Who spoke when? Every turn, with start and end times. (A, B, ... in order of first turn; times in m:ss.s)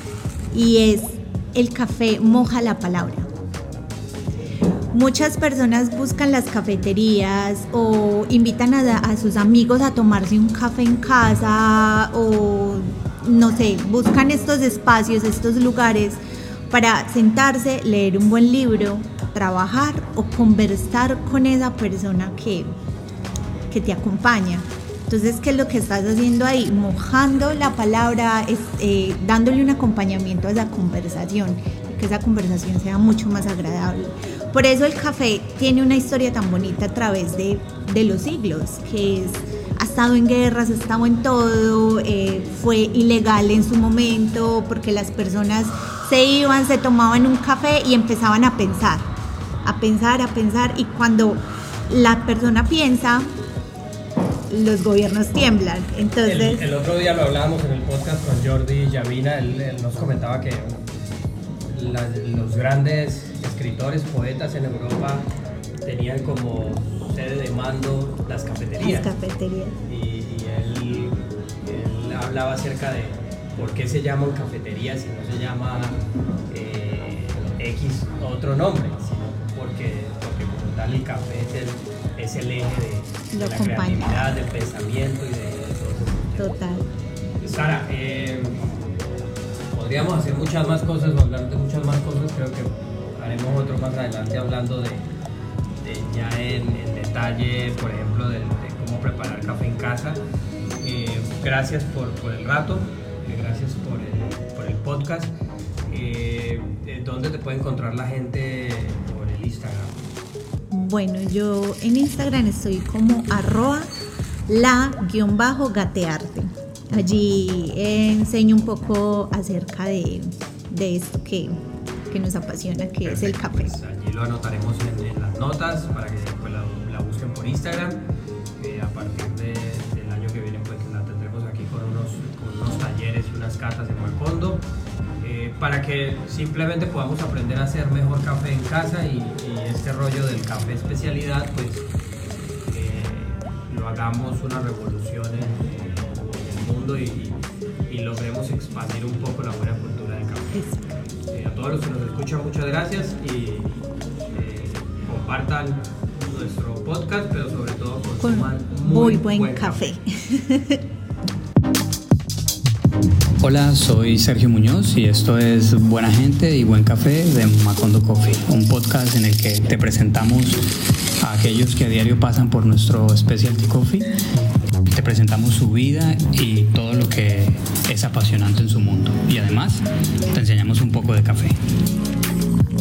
0:00.5-0:03.3 A
0:04.9-0:16.2 A
0:16.7-0:22.7 A
0:23.7-0:49.0 A
0:49.6-0:53.3 A
0:54.5-0:56.6 A
0:56.2-1:00.9 B
1:01.6-1:05.3 B
1:05.8-1:09.1 B
1:08.8-1:09.8 A
1:09.9-1:26.5 B
1:23.3-1:24.3 A
1:26.4-1:26.9 A
1:27.4-1:28.7 B
1:29.7-1:35.1 B
1:35.8-1:40.2 B
1:40.8-1:45.3 B
1:45.9-1:50.0 B
1:50.7-1:53.9 A
1:54.5-2:03.7 A
2:03.0-2:08.0 B
2:08.6-2:14.6 B
2:15.2-2:30.6 B
2:30.5-2:31.0 A
2:31.2-2:39.9 B
2:38.2-2:40.8 A
2:43.4-2:50.6 C
2:51.2-2:54.1 C
2:54.9-3:01.6 C